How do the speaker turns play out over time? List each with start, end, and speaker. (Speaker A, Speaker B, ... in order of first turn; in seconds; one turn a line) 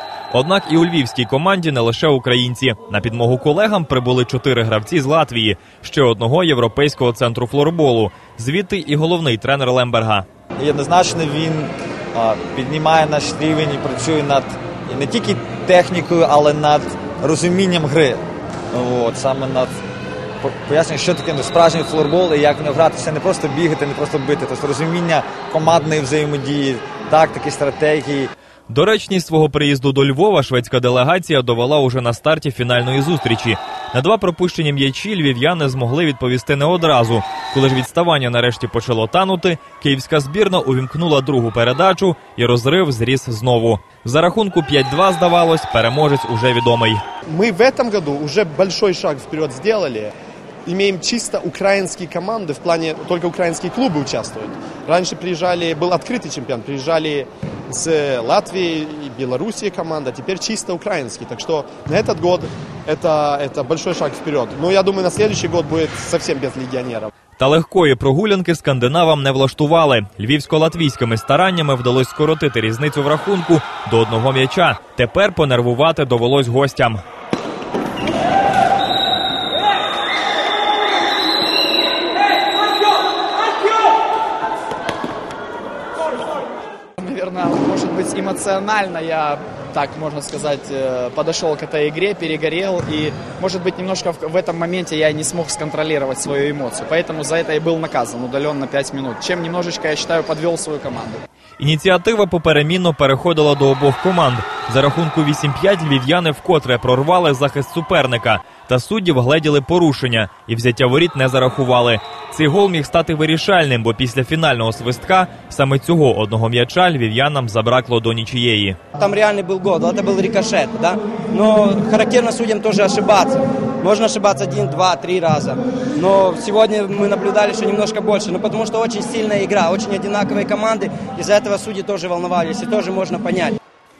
Speaker A: 0.3-10.2
Speaker B: 10.6-18.2
Speaker B: 18.7-19.7
Speaker B: 20.4-28.3
Speaker A: 28.7-47.0
Speaker C: 47.3-50.1
Speaker C: 50.6-67.1
Speaker A: 67.4-77.0
Speaker D: 87.0-101.2
Speaker A: 101.6-118.8
Speaker E: 119.0-133.6